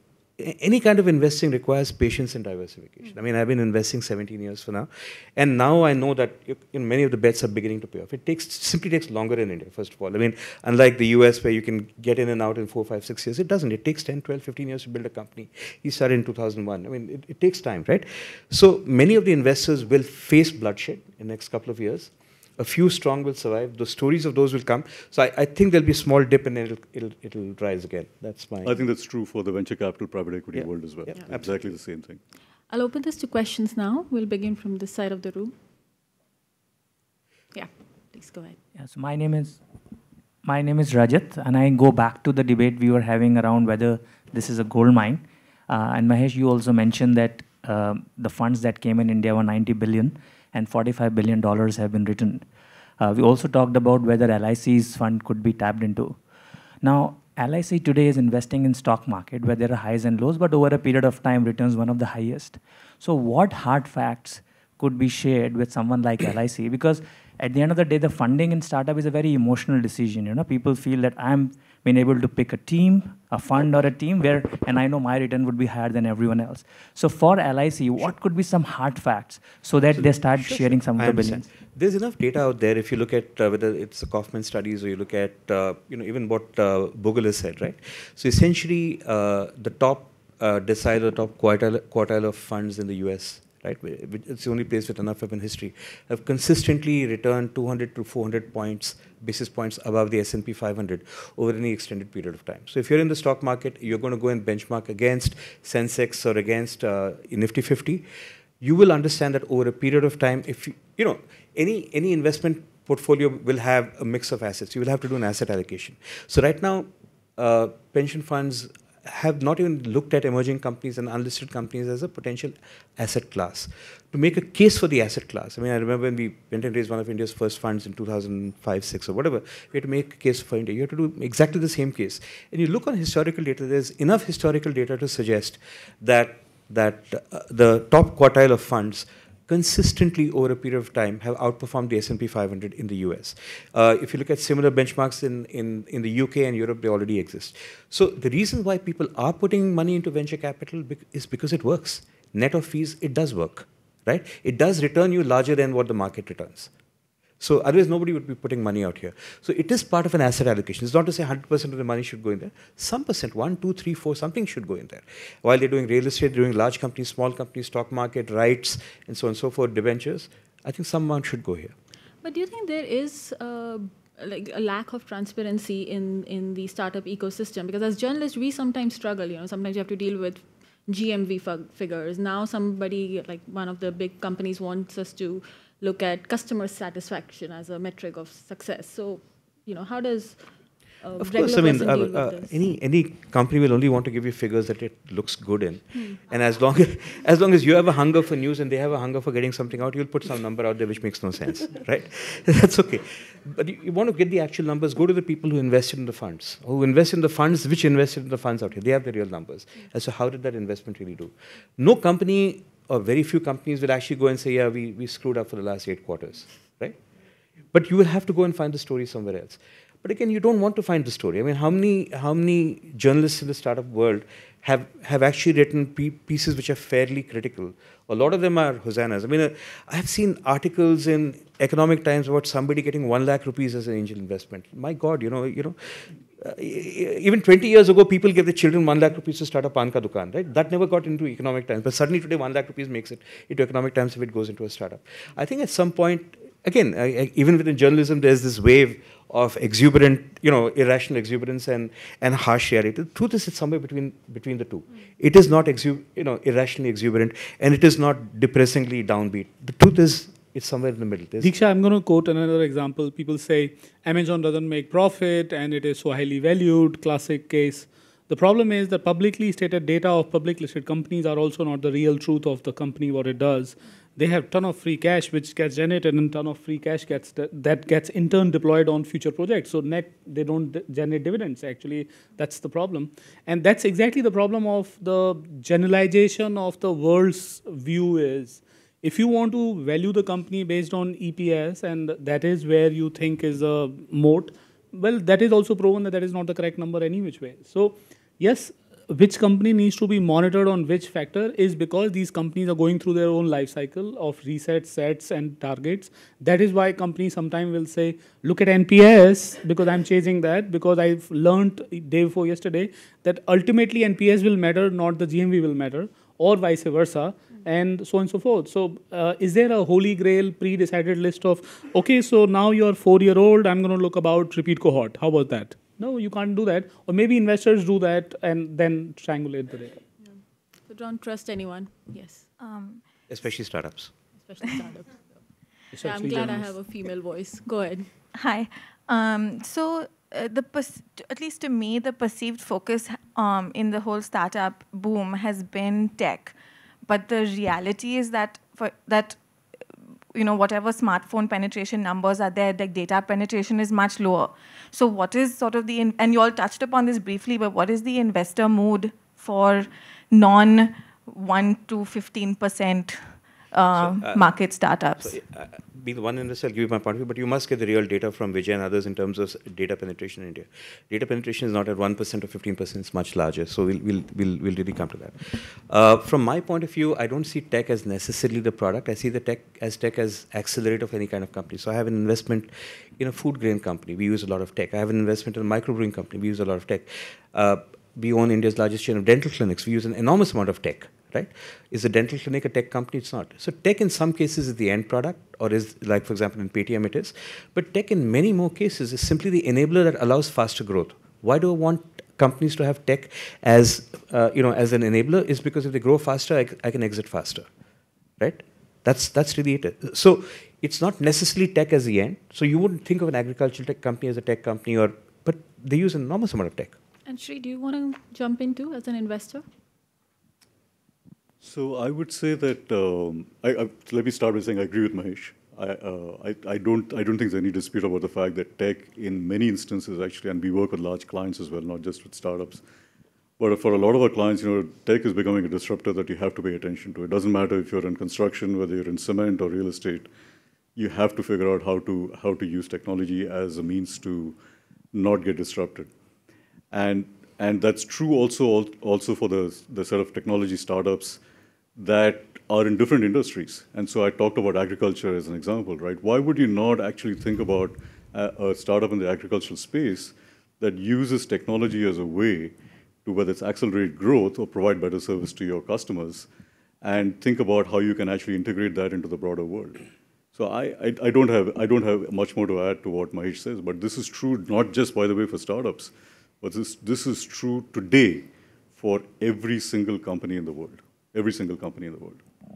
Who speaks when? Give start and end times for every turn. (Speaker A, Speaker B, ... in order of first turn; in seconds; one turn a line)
Speaker A: 0.4-28.8
Speaker B: 28.6-32.2
Speaker A: 30.5-31.6
Speaker C: 32.7-35.5
Speaker C: 37.5-38.6
Speaker D: 38.8-39.6
Speaker D: 40.4-52.5
Speaker D: 53.0-56.2
Speaker D: 56.8-81.5
Speaker A: 80.0-108.1
Speaker A: 108.6-156.7
Speaker A: 157.4-171.8
Speaker C: 172.2-190.4
Speaker C: 191.0-192.6
Speaker A: 191.2-217.0
Speaker A: 217.7-261.5
Speaker E: 261.4-330.0
Speaker C: 330.2-332.5
Speaker F: 332.6-333.0
Speaker A: 333.3-334.1
Speaker C: 334.4-335.4
Speaker E: 335.9-336.7
Speaker C: 336.0-338.1
Speaker F: 338.4-346.5
Speaker F: 347.1-349.4
Speaker F: 350.3-365.4
Speaker A: 363.9-364.5
Speaker A: 365.2-407.7
Speaker A: 408.4-416.9
Speaker C: 417.3-419.6
Speaker B: 421.6-432.8
Speaker B: 433.6-440.3
Speaker B: 441.0-444.6
Speaker B: 445.1-446.1
Speaker B: 446.9-451.4
Speaker B: 452.0-462.7
Speaker B: 463.2-466.5
Speaker B: 467.0-482.4